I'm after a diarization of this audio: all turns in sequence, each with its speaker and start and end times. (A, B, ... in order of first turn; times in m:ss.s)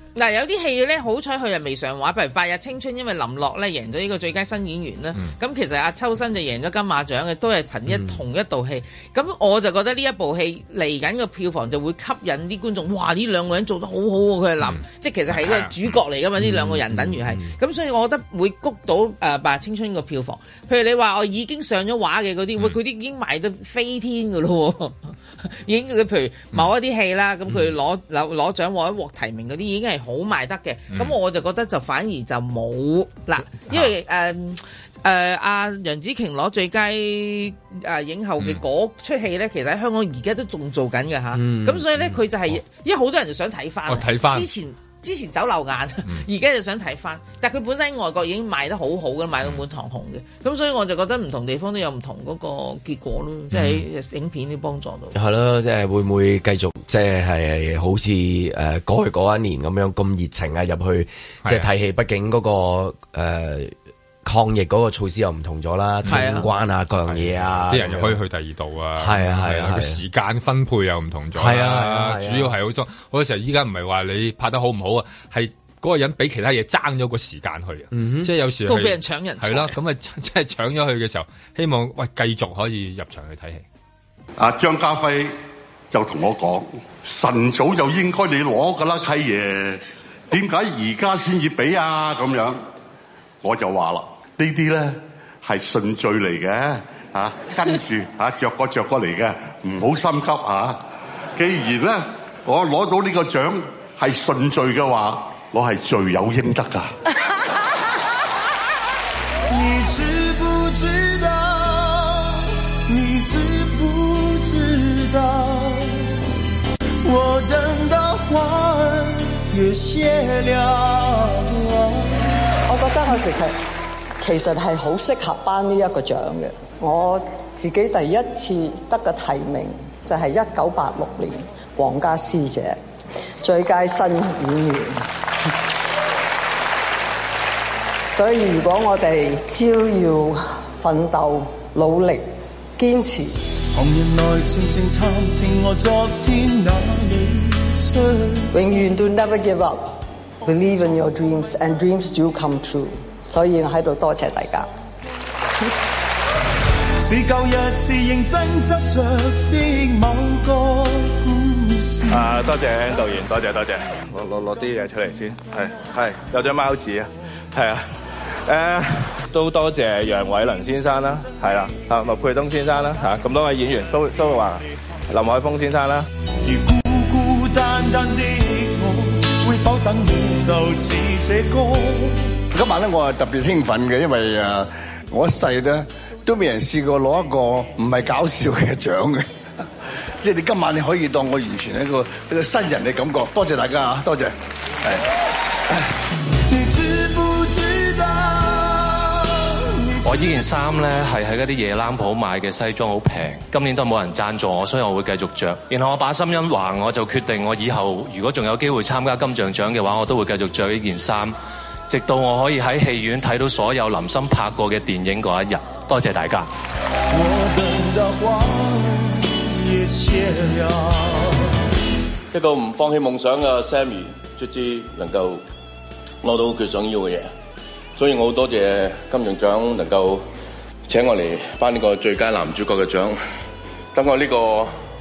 0:00.2-0:55.2 A
0:07.9-0:08.2 B
0:14.6-0:16.0 C
0:16.4-0:17.6 B
0:41.3-0:41.9 B
0:43.9-0:44.5 C
0:53.5-0:53.8 C
0:55.1-1:03.7 B
1:04.2-1:08.2 B
1:06.0-1:06.4 C
1:06.1-1:06.5 A
1:07.1-1:23.6 C
1:09.0-1:10.0 B
1:11.4-1:12.6 B
1:17.9-1:18.3 B
1:18.7-1:19.7 A
1:24.4-1:25.3 D
1:25.9-1:32.6 D
1:33.4-1:40.8 D
1:41.4-1:46.9 D
1:49.5-1:52.3 E
1:52.9-1:55.8 E
1:57.1-2:01.7 E
2:02.7-2:03.5 F
2:04.2-2:12.8 F
2:13.4-2:15.0 F
2:18.1-2:22.2 F
2:22.8-2:23.3 F
2:23.8-2:28.5 E
2:28.5-2:29.9 F
2:30.4-2:34.7 F
2:37.0-2:42.3 E
2:42.1-2:47.9 G
2:48.5-2:56.1 G
2:56.5-3:02.2 E
3:02.5-3:09.2 H
3:10.2-3:15.0 H
3:16.5-3:19.2 E
3:19.9-3:20.2 E
3:20.0-3:36.5 I
3:37.2-3:41.1 E
3:42.3-3:45.4 J
3:46.2-3:47.3 J
3:48.0-3:50.2 J
3:50.9-3:53.2 J
3:53.9-3:54.7 J